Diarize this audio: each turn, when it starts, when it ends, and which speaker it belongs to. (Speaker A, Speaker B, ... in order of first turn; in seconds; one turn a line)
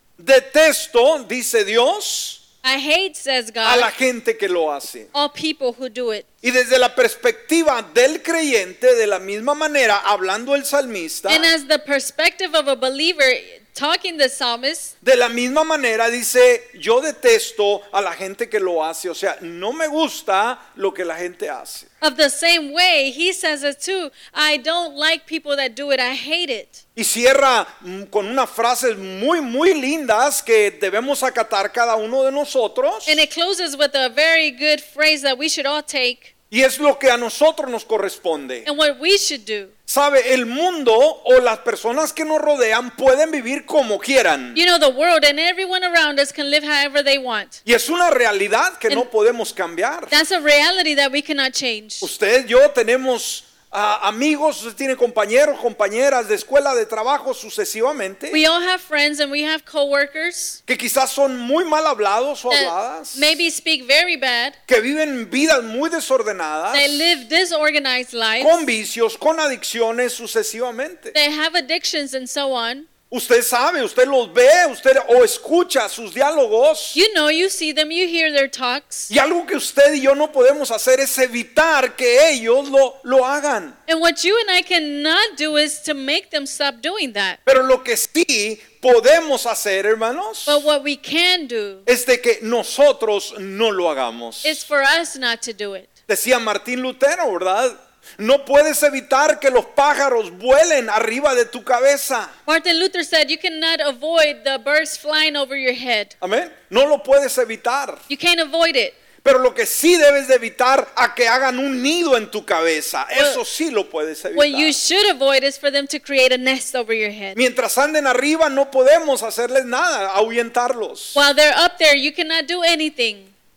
Speaker A: 0.2-2.4
Speaker B: 2.6-3.9
Speaker A: 3.6-5.1
Speaker B: 5.1-6.2
Speaker A: 6.4-11.5
Speaker B: 11.3-14.9
Speaker A: 15.0-21.9
Speaker B: 22.0-26.8
Speaker A: 26.9-33.2
Speaker B: 33.0-36.3
Speaker A: 36.5-38.7
Speaker B: 38.6-39.7
Speaker A: 39.9-44.6
Speaker B: 44.5-47.6
Speaker A: 47.6-50.1
Speaker B: 50.1-52.1
Speaker A: 52.0-58.4
Speaker B: 58.3-60.6
Speaker A: 60.7-63.4
Speaker B: 62.5-64.5
Speaker A: 64.7-67.0
Speaker B: 66.7-68.7
Speaker A: 68.4-71.1
Speaker B: 71.1-72.9
Speaker A: 73.1-77.0
Speaker B: 76.9-79.1
Speaker A: 79.1-83.8
Speaker B: 83.9-87.4
Speaker A: 87.5-90.6
Speaker B: 90.5-91.8
Speaker A: 91.8-94.6
Speaker B: 94.4-95.9
Speaker A: 96.1-102.3
Speaker B: 102.5-106.1
Speaker A: 106.2-108.0
Speaker B: 108.1-109.0
Speaker A: 109.2-114.7
Speaker B: 114.3-117.4
Speaker A: 117.3-121.2
Speaker B: 121.1-123.3